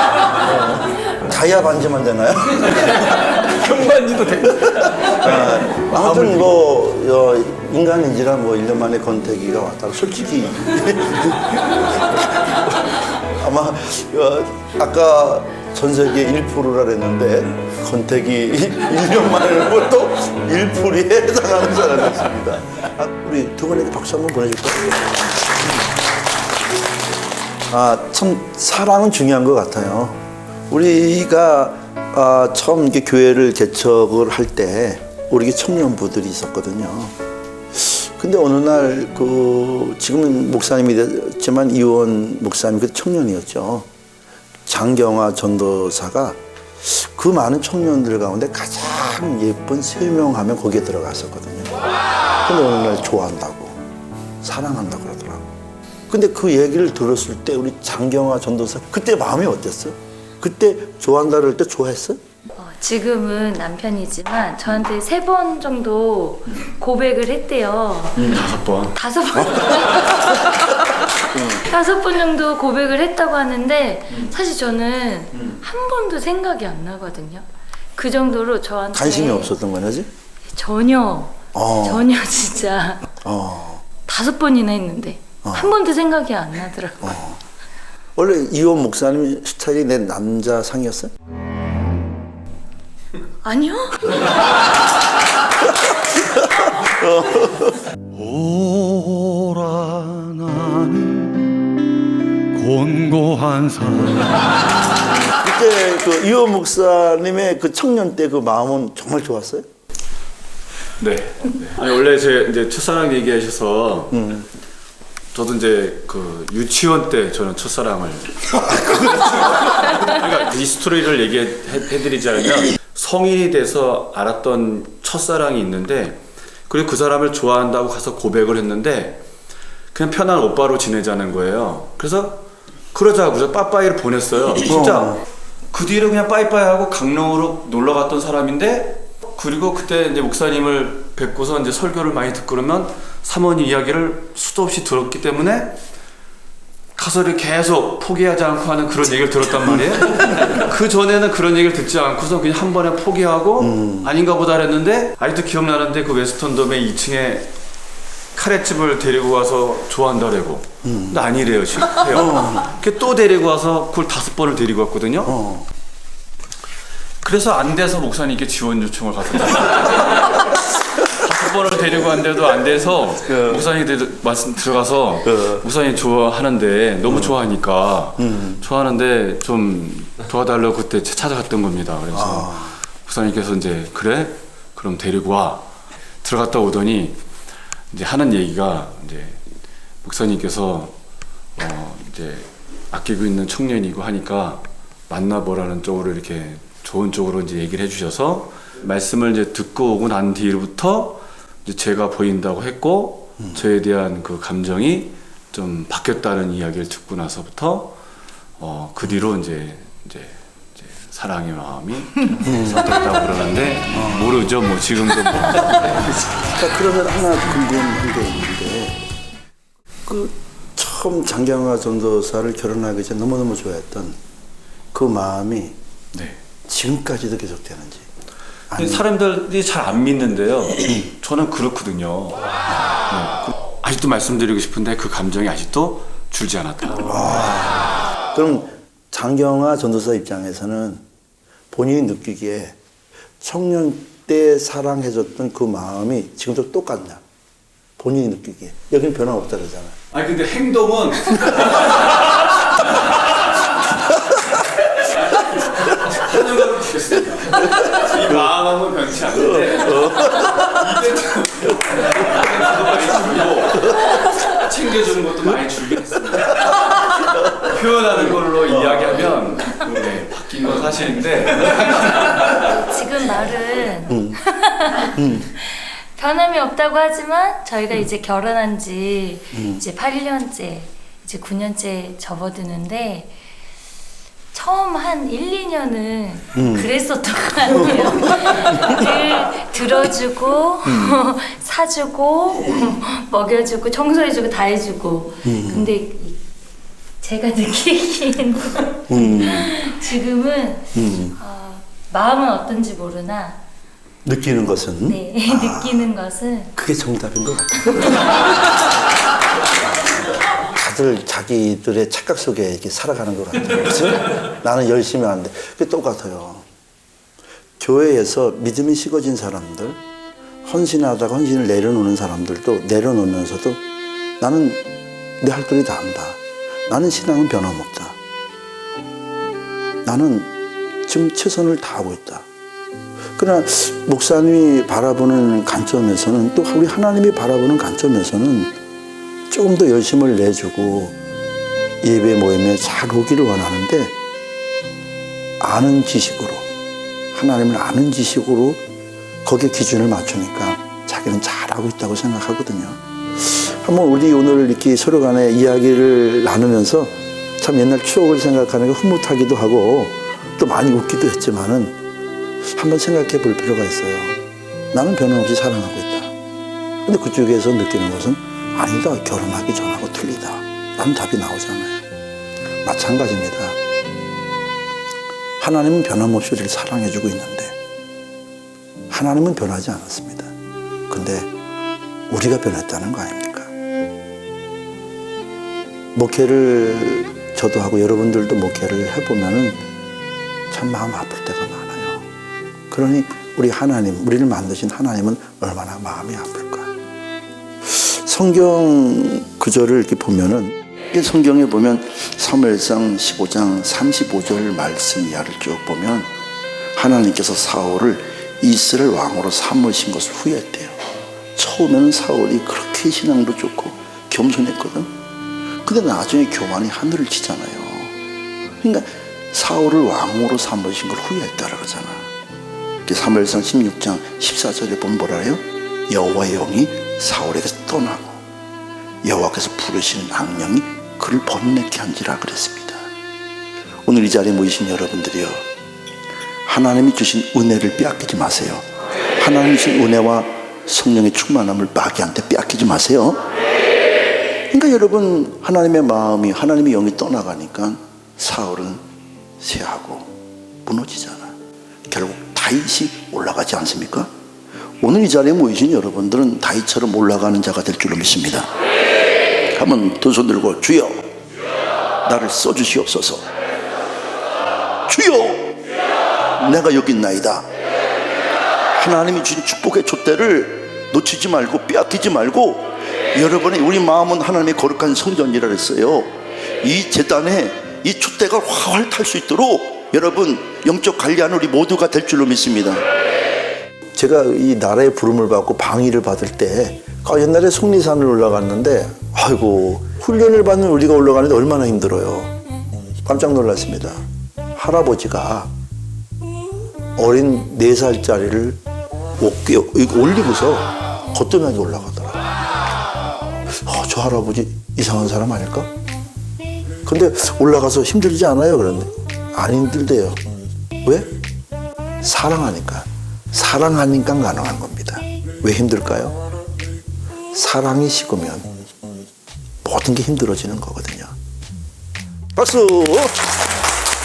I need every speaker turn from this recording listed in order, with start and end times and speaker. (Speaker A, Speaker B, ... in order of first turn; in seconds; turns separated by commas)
Speaker A: 0.5-3.0, Speaker B: 3.0-6.6, Speaker A: 5.0-25.3, Speaker A: 27.7-37.1, Speaker A: 37.7-43.9, Speaker A: 44.7-51.8, Speaker A: 52.5-53.8, Speaker A: 54.4-55.5, Speaker A: 56.1-62.2, Speaker C: 62.6-79.6, Speaker D: 68.2-69.0, Speaker A: 78.9-80.1, Speaker C: 80.5-83.2, Speaker A: 81.5-82.1, Speaker A: 83.2-83.9, Speaker C: 84.0-87.2, Speaker A: 85.4-85.8, Speaker A: 87.0-87.4, Speaker A: 88.2-91.1, Speaker C: 93.4-94.3, Speaker A: 95.7-97.8, Speaker D: 98.2-101.4, Speaker D: 102.5-104.4, Speaker A: 105.4-109.7, Speaker D: 111.0-114.2, Speaker A: 114.1-114.5, Speaker D: 115.3-129.2, Speaker D: 129.9-135.2, Speaker A: 134.7-135.2, Speaker D: 135.7-145.8, Speaker D: 147.0-157.5, Speaker A: 153.6-154.1, Speaker D: 158.3-165.3, Speaker A: 160.8-161.2, Speaker A: 162.1-162.7, Speaker A: 165.2-165.7, Speaker D: 167.2-185.7, Speaker A: 173.3-173.7, Speaker A: 175.2-175.6, Speaker A: 177.1-177.4, Speaker A: 178.2-178.6, Speaker A: 182.1-182.8, Speaker D: 186.2-187.2, Speaker D: 187.9-189.4, Speaker D: 190.0-190.9, Speaker D: 191.6-207.9, Speaker D: 208.6-216.1, Speaker A: 212.4-212.9, Speaker A: 213.9-214.4, Speaker A: 216.4-219.0, Speaker A: 220.1-224.2, Speaker A: 224.9-225.8, Speaker A: 226.7-228.1, Speaker A: 228.7-229.0, Speaker D: 228.8-232.5, Speaker D: 233.1-237.4, Speaker A: 237.0-241.0, Speaker A: 241.7-242.8, Speaker A: 243.4-247.2, Speaker A: 248.0-250.0, Speaker D: 250.1-272.6, Speaker A: 259.5-260.7, Speaker C: 272.6-283.3, Speaker A: 274.1-274.4, Speaker A: 275.1-275.5, Speaker A: 279.5-279.8, Speaker C: 284.5-296.4, Speaker A: 286.5-286.9, Speaker A: 290.9-291.2, Speaker A: 295.4-295.9, Speaker C: 297.2-303.6, Speaker A: 299.1-299.8, Speaker A: 300.9-301.4, Speaker A: 304.2-306.1, Speaker C: 305.1-306.7, Speaker A: 306.8-308.4, Speaker A: 310.6-316.7, Speaker A: 317.8-320.0, Speaker A: 320.6-323.8, Speaker A: 324.4-324.8, Speaker A: 325.4-328.2, Speaker A: 330.1-330.5, Speaker A: 331.1-332.5, Speaker A: 333.4-338.8, Speaker A: 339.5-341.2, Speaker A: 342.0-344.2, Speaker A: 345.6-346.7, Speaker A: 347.3-348.8, Speaker A: 349.4-362.0, Speaker A: 362.8-364.4, Speaker A: 364.9-366.3, Speaker A: 367.1-372.0, Speaker A: 372.8-373.8, Speaker A: 375.6-377.8, Speaker A: 379.1-380.5, Speaker A: 381.1-381.5, Speaker A: 382.3-383.7, Speaker A: 386.1-389.8, Speaker A: 390.7-392.3, Speaker A: 392.9-396.9, Speaker A: 397.8-406.3, Speaker A: 407.0-411.0, Speaker A: 411.6-415.1, Speaker A: 415.8-418.1, Speaker A: 418.8-422.3, Speaker A: 423.1-428.4, Speaker A: 429.2-433.0, Speaker A: 434.1-435.7, Speaker A: 436.7-438.9, Speaker A: 439.4-443.4, Speaker A: 444.7-449.0, Speaker A: 449.6-450.3, Speaker A: 450.8-451.6, Speaker A: 452.1-454.3, Speaker A: 455.0-458.7, Speaker A: 459.7-461.2, Speaker A: 462.2-463.5, Speaker A: 465.1-465.8, Speaker A: 466.6-467.7, Speaker A: 468.9-483.1, Speaker A: 484.1-492.5, Speaker A: 493.2-494.2, Speaker A: 494.8-495.7, Speaker A: 497.2-498.8, Speaker A: 499.4-502.4, Speaker A: 503.7-505.9, Speaker A: 507.1-510.4, Speaker A: 511.0-511.3, Speaker A: 512.2-516.4, Speaker A: 517.5-518.7, Speaker A: 519.8-521.3, Speaker A: 522.6-523.6